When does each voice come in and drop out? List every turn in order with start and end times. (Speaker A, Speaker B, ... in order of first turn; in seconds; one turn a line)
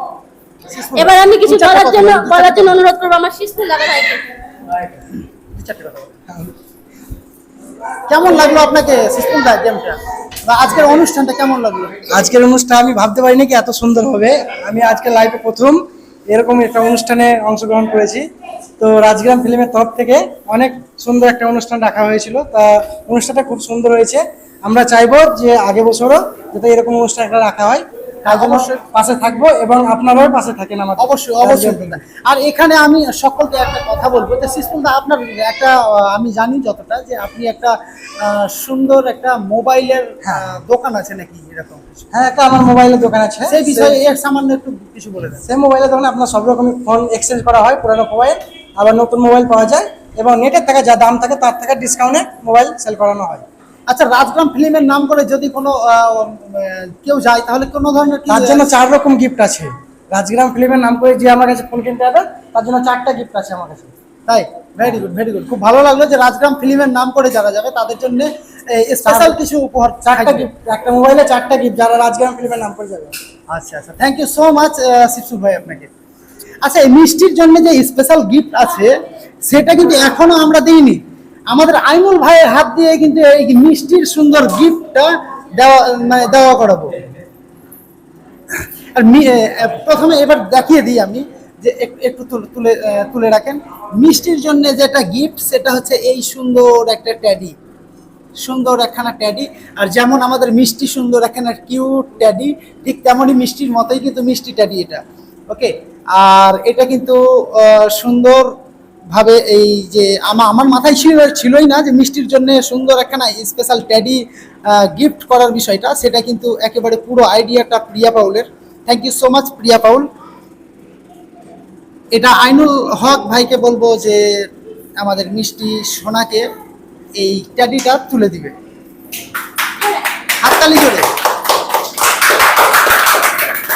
Speaker A: 0.7-2.8
Speaker B: 1.0-4.2
Speaker A: 5.5-6.2
Speaker A: 8.1-12.0
Speaker C: 12.1-18.2
Speaker C: 18.8-32.0
Speaker A: 28.2-28.8
Speaker A: 31.0-42.0
Speaker C: 42.1-44.0
Speaker A: 43.5-45.4
Speaker C: 45.5-53.5
Speaker A: 53.9-58.7
Speaker C: 58.3-63.9
Speaker A: 64.3-70.5
Speaker C: 69.0-69.4
Speaker C: 70.0-73.2
Speaker A: 73.5-75.9
Speaker A: 76.6-86.9
Speaker A: 89.0-97.5
Speaker A: 98.4-108.5
Speaker A: 109.1-120.1
Speaker A: 122.1-124.2
Speaker A: 125.0-126.5
Speaker A: 127.2-128.5
Speaker B: 129.8-130.1
Speaker A: 130.4-131.1